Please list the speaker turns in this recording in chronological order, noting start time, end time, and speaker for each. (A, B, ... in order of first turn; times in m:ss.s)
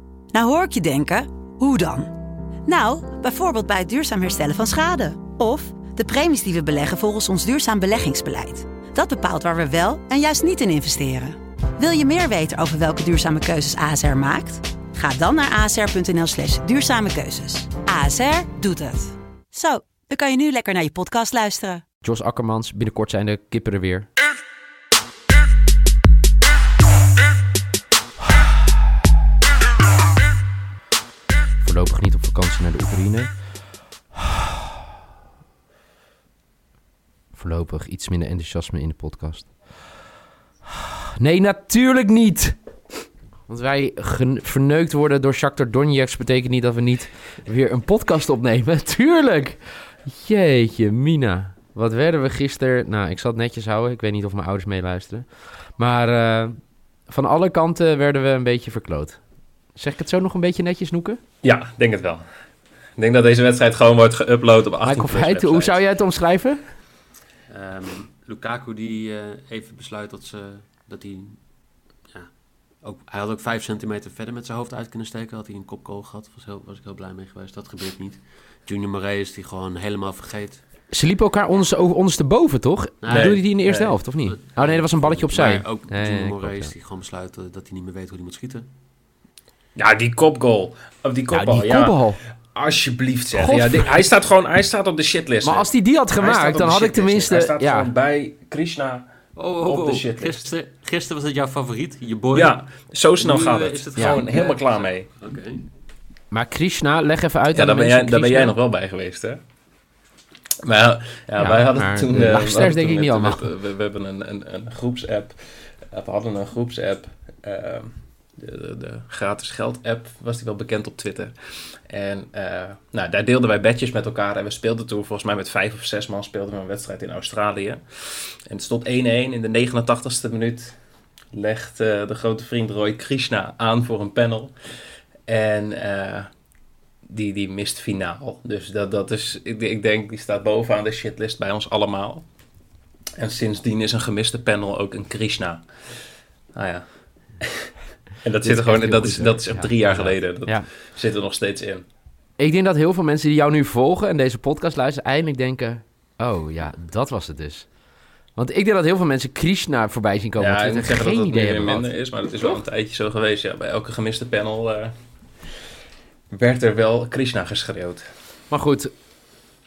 0:00.3-0:02.1 A
0:02.7-0:21.8 A
0:22.0-0:24.1 B
0:31.6-0:34.4 B
0:37.3-0:39.9 B
0:41.2-0:42.6 B
0:43.5-1:01.2 B
1:01.4-1:02.3 C
1:03.0-1:05.8 C
1:04.8-1:06.6 B
1:07.5-1:11.5 D
1:12.0-1:20.6 D
1:20.9-1:26.7 B
1:23.0-1:28.7 D
1:23.1-1:24.0 C
1:29.8-1:40.5 C
1:31.3-1:32.2 B
1:33.3-1:34.0 B
1:35.4-1:37.9 B
1:39.4-1:45.6 D
1:42.3-1:45.1 C
1:44.0-1:44.2 B
1:46.3-1:48.6 B
1:47.5-1:49.4 C
1:50.6-2:10.8 C
1:51.4-1:53.4 B
2:11.3-2:14.6 C
2:15.3-2:16.3 C
2:17.0-2:22.3 C
2:23.2-2:25.7 C
2:26.5-2:27.7 C
2:28.2-2:31.8 C
2:28.4-2:30.7 B
2:32.4-2:37.7 B
2:38.4-2:42.6 B
2:40.4-2:45.0 C
2:46.3-2:48.1 C
2:48.5-2:48.9 B